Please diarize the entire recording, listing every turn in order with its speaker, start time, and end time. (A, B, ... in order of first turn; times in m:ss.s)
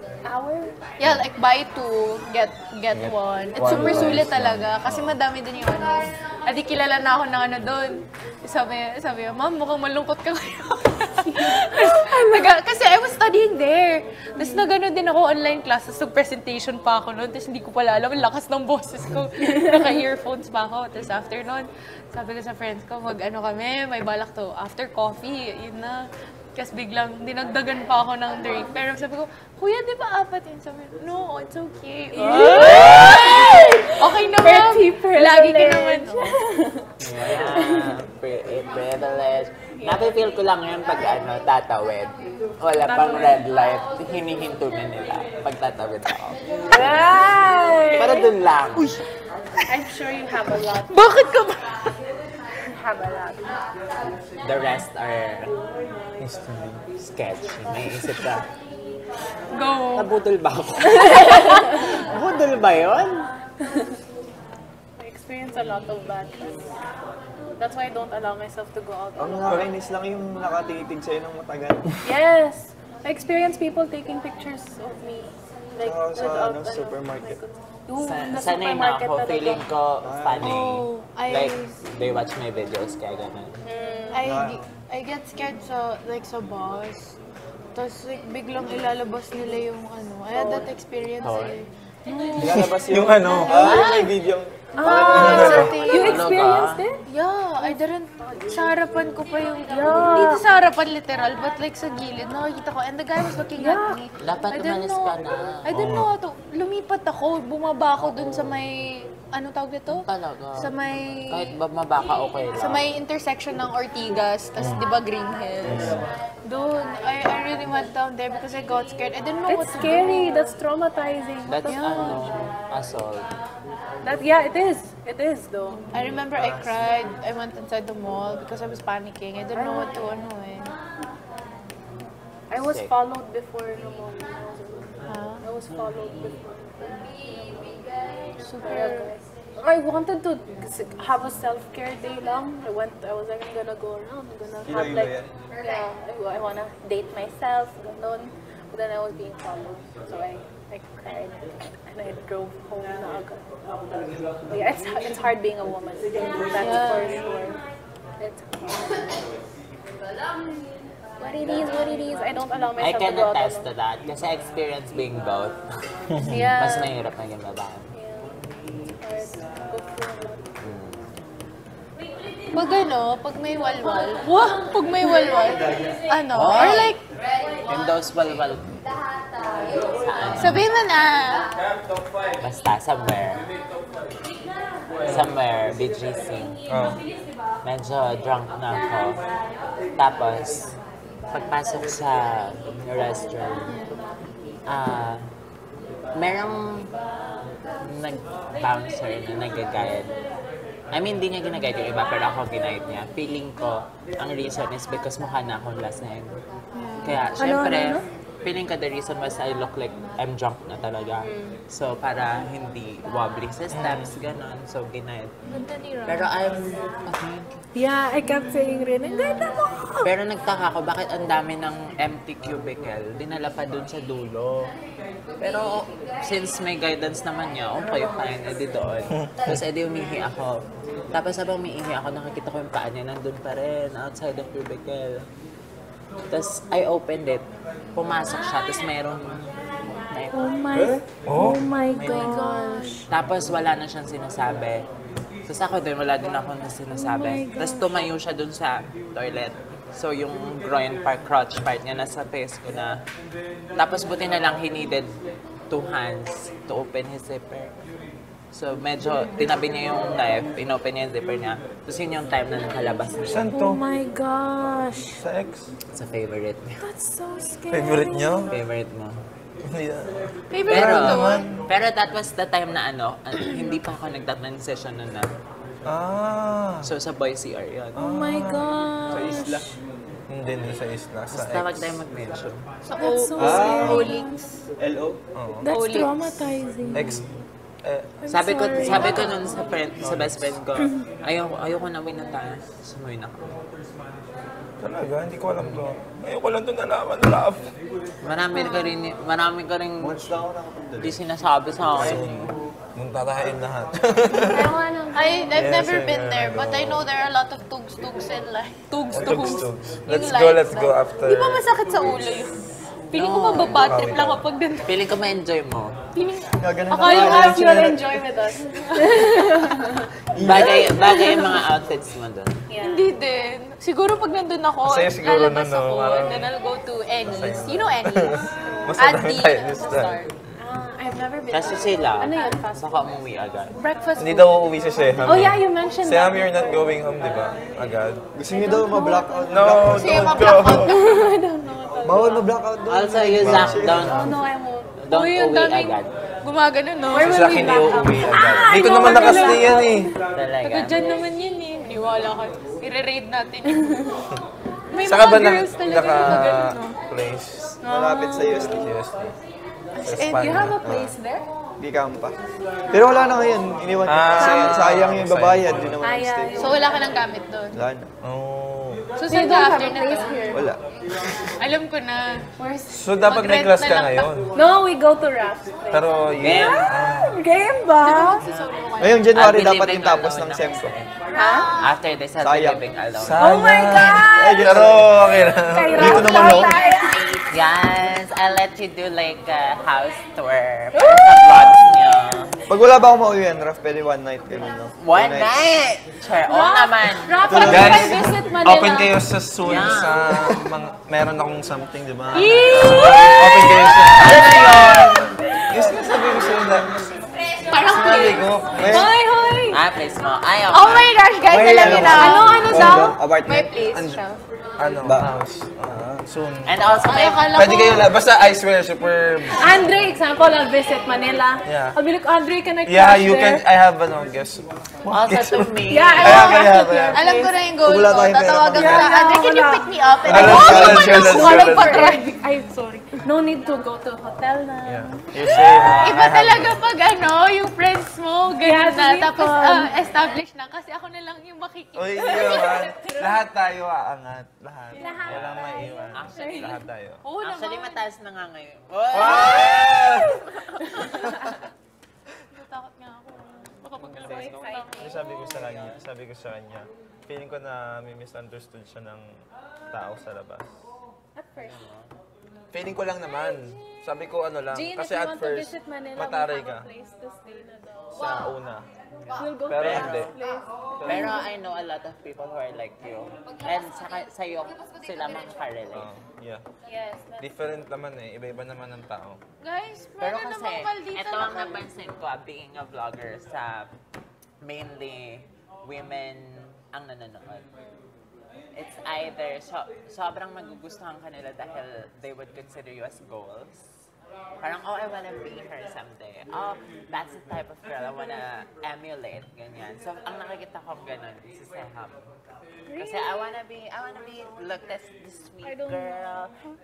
0:00.2-0:00.7 A
0:01.0-0:36.4 B
0:02.9-0:05.2 C
0:11.2-0:12.4 A
0:14.4-0:14.7 A
0:19.4-0:20.1 A
0:32.1-0:38.0 A
0:37.0-0:46.4 D
0:39.8-0:40.1 A
0:42.8-0:43.4 A
0:46.7-0:48.3 A
0:48.0-0:49.0 D
0:49.7-0:51.0 A
0:50.9-0:51.6 B
0:52.7-0:53.5 A
0:54.4-0:55.6 D
0:56.2-0:56.8 C
0:57.0-0:58.5 D
0:59.5-1:00.1 B
1:00.0-1:03.3 D
1:05.0-1:06.6 A
1:07.6-1:09.8 A
1:09.2-1:12.0 E
1:12.0-1:19.7 A
1:15.8-1:17.4 E
1:18.0-1:23.5 D
1:20.0-1:20.5 E
1:20.4-1:21.8 B
1:23.7-1:24.2 A
1:24.1-1:27.1 B
1:24.2-1:24.6 E
1:27.7-1:32.4 B
1:30.4-1:30.6 E
1:31.2-1:31.6 D
1:32.0-1:32.6 A
1:32.4-1:35.7 E
1:32.4-1:33.8 C
1:33.4-1:34.2 B
1:34.8-1:37.0 A
1:34.8-1:36.3 B
1:35.1-1:35.8 C
1:35.9-1:36.8 D
1:37.1-1:51.5 B
1:37.6-1:38.8 A
1:39.7-1:40.4 A
1:43.6-1:44.0 A
1:44.2-1:45.7 D
1:45.7-1:46.1 C
1:48.0-1:48.5 D
1:49.9-1:50.7 D
1:51.3-1:52.9 D
1:52.5-2:00.3 B
1:54.6-1:54.8 C
1:55.6-1:56.1 C
1:59.5-2:02.2 A
2:01.4-2:03.3 D
2:01.7-2:02.4 B
2:04.0-2:05.9 A
2:05.9-2:10.7 B
2:09.5-2:10.2 A
2:12.5-2:17.7 A
2:12.6-2:12.9 D
2:15.1-2:15.4 B
2:18.4-2:19.1 B
2:18.5-2:33.5 A
2:24.6-2:25.3 E
2:34.5-2:37.6 A
2:36.6-2:37.2 B
2:38.2-2:39.2 A
2:41.2-2:43.7 A
2:42.8-2:45.6 D
2:46.2-2:47.0 A
2:46.4-2:47.9 D
2:47.9-2:48.3 A
2:49.0-2:50.5 A
2:50.6-2:51.2 D
2:52.5-2:57.0 B
2:56.3-2:57.0 D
2:57.7-2:58.7 D
3:00.0-3:00.6 D
3:00.4-3:01.5 B
3:02.4-3:03.4 D
3:05.0-3:05.3 C
3:05.0-3:06.6 D
3:06.7-3:07.0 C
3:07.6-3:09.2 D
3:10.0-3:10.7 D
3:11.3-3:13.8 D
3:14.7-3:15.3 D
3:16.2-3:16.9 D
3:17.8-3:20.1 D
3:20.9-3:26.3 D
3:26.7-3:27.2 B
3:27.0-3:35.3 D
3:27.4-3:28.0 A
3:31.2-3:31.5 B
3:33.7-3:34.1 C
3:35.5-3:36.3 B
3:36.0-3:37.6 D
3:37.7-3:40.1 A
3:40.0-3:44.7 D
3:45.4-3:50.6 D
3:49.1-3:49.6 C
3:51.1-3:55.2 D
3:56.3-4:00.4 D
4:00.3-4:03.1 A
4:01.3-4:01.7 C
4:01.9-4:02.6 D
4:02.1-4:02.8 B
4:03.1-4:04.8 D
4:05.5-4:13.0 D
4:06.9-4:07.9 A
4:13.8-4:15.1 D
4:15.7-4:17.8 D
4:18.5-4:23.5 D
4:23.2-4:23.8 C
4:23.5-4:25.2 A
4:25.1-4:25.7 C
4:25.9-4:26.8 D
4:26.8-4:28.5 A
4:27.7-4:28.5 C
4:28.5-4:29.2 D
4:29.6-4:31.6 C
4:30.5-4:31.5 B
4:30.7-4:35.3 D
4:35.9-4:36.9 C
4:36.8-4:38.0 D
4:38.0-4:38.7 C
4:38.0-4:39.7 A
4:39.1-4:39.7 E
4:40.3-4:42.0 C
4:41.3-4:42.6 D
4:42.8-4:44.5 B
4:43.0-4:44.3 A
4:43.4-4:44.2 E
4:43.8-4:44.1 C
4:44.8-4:45.2 E
4:45.3-4:45.8 C
4:45.6-4:47.2 A
4:45.6-4:46.5 B
4:46.9-4:47.2 C
4:47.8-4:48.1 C
4:48.2-4:49.6 A
4:48.3-4:53.6 D
4:48.7-4:49.2 C
4:50.0-4:50.6 C
4:54.8-4:57.7 C
4:58.2-5:00.2 D
4:58.5-4:58.9 B
5:00.0-5:01.2 E
5:01.0-5:02.2 D
5:01.9-5:02.2 E
5:02.0-5:04.7 C
5:04.4-5:05.6 A
5:05.1-5:14.9 B
5:05.5-5:07.0 C
5:09.1-5:11.6 C
5:13.1-5:13.9 D
5:13.7-5:14.4 C
5:14.8-5:16.0 D
5:16.1-5:17.8 B
5:16.6-5:18.3 E
5:17.0-5:20.1 A
5:18.9-5:19.9 B
5:20.3-5:21.5 E
5:20.4-5:22.6 D
5:20.9-5:21.5 B
5:22.7-5:23.1 A
5:22.8-5:30.3 B
5:24.8-5:26.5 C
5:27.2-5:30.2 C
5:30.6-5:33.2 A
5:31.5-5:33.8 D
5:33.8-5:34.4 B
5:33.8-5:34.5 A
5:34.2-5:38.2 C
5:35.2-5:37.5 A
5:38.3-5:40.5 E
5:38.5-5:42.5 A
5:39.5-5:41.0 C
5:39.8-5:41.3 B
5:42.0-5:44.3 E
5:42.9-5:44.3 D
5:43.5-5:44.3 C
5:43.5-5:44.9 A
5:45.0-5:46.1 D
5:45.1-5:47.4 B
5:47.1-5:50.1 A
5:47.2-5:50.1 C
5:48.6-5:49.8 B
5:50.3-5:51.0 D
5:50.6-5:53.9 B
5:53.7-5:54.0 A
5:54.9-5:57.0 B
5:55.0-5:57.7 C
5:57.8-5:58.6 B
5:57.8-5:59.0 E
5:58.4-5:58.9 A
5:58.7-5:59.3 C
6:00.0-6:01.4 A
6:00.0-6:01.1 C
6:00.1-6:00.4 B
6:00.8-6:01.1 E
6:01.8-6:02.4 E
6:02.9-6:06.9 E
6:04.1-6:06.0 C
6:04.3-6:05.0 A
6:06.0-6:07.1 A
6:06.6-6:07.8 B
6:07.7-6:08.1 E
6:08.2-6:09.0 C
6:09.2-6:10.6 B
6:09.3-6:10.7 A
6:10.5-6:10.8 E
6:11.6-6:12.5 B
6:12.6-6:13.1 A
6:12.9-6:14.5 C
6:13.1-6:14.4 B
6:14.5-6:18.4 A
6:15.9-6:17.4 C
6:16.4-6:16.9 D
6:18.0-6:19.4 B
6:19.0-6:21.0 E
6:19.3-6:21.1 D
6:21.3-6:21.8 A
6:21.3-6:21.9 B
6:21.8-6:23.6 D
6:22.4-6:22.8 E
6:23.2-6:26.4 C
6:23.4-6:24.6 A
6:24.0-6:25.2 E
6:25.6-6:27.4 A
6:25.9-6:27.0 E
6:26.4-6:27.2 B
6:27.5-6:32.5 D
6:30.9-6:31.8 A
6:32.7-6:35.8 E
6:35.0-6:37.6 D
6:36.5-6:39.1 A
6:37.4-6:38.3 E
6:37.6-6:47.0 C
6:39.6-6:40.2 D
6:42.3-6:44.3 A
6:42.6-6:45.2 B
6:44.2-6:44.5 D
6:44.4-6:45.0 E
6:47.7-6:49.8 B
6:47.8-6:49.1 C
6:48.8-6:49.1 E
6:49.7-6:51.1 D
6:50.7-6:54.4 B
6:51.5-6:53.8 E
6:52.1-6:53.2 A
6:53.9-6:54.2 C
6:54.8-6:56.8 C
6:55.0-6:55.3 E
6:55.9-6:56.2 E
6:56.6-6:57.4 D
6:57.0-6:58.1 B
6:57.5-6:59.8 C
6:59.6-7:03.6 A
7:01.6-7:02.0 C
7:02.8-7:07.2 C
7:05.1-7:06.7 D
7:05.9-7:07.6 A
7:07.1-7:12.3 B
7:07.8-7:09.2 E
7:08.7-7:15.2 A
7:10.2-7:11.1 E
7:10.3-7:12.0 C
7:14.8-7:16.8 C
7:15.4-7:16.2 D
7:16.0-7:23.4 B
7:18.6-7:20.0 A
7:22.0-7:27.2 C
7:24.9-7:26.8 A
7:25.2-7:26.9 D
7:27.2-7:28.0 B
7:27.4-7:30.1 D
7:29.1-7:30.4 C
7:30.8-7:31.6 A
7:32.5-7:35.2 B
7:34.0-7:35.4 A
7:35.0-7:39.3 C
7:35.3-7:36.0 D
7:39.9-7:40.8 C
7:41.4-7:41.8 A
7:41.6-7:42.1 D
7:42.7-7:46.9 C
7:44.7-7:48.6 A
7:48.1-7:48.8 C
7:49.2-7:50.2 D
7:49.4-7:51.5 A
7:49.6-7:50.3 C
7:51.0-7:51.4 C
7:51.0-7:56.1 D
7:55.9-7:56.6 C
7:56.9-7:57.6 A
7:57.4-7:59.4 C
7:59.6-8:01.8 B
8:00.2-8:03.9 D
8:04.6-8:07.6 D
8:08.7-8:13.8 D
8:14.6-8:22.2 D
8:22.9-8:23.4 A
8:23.0-8:26.5 D
8:25.6-8:26.5 A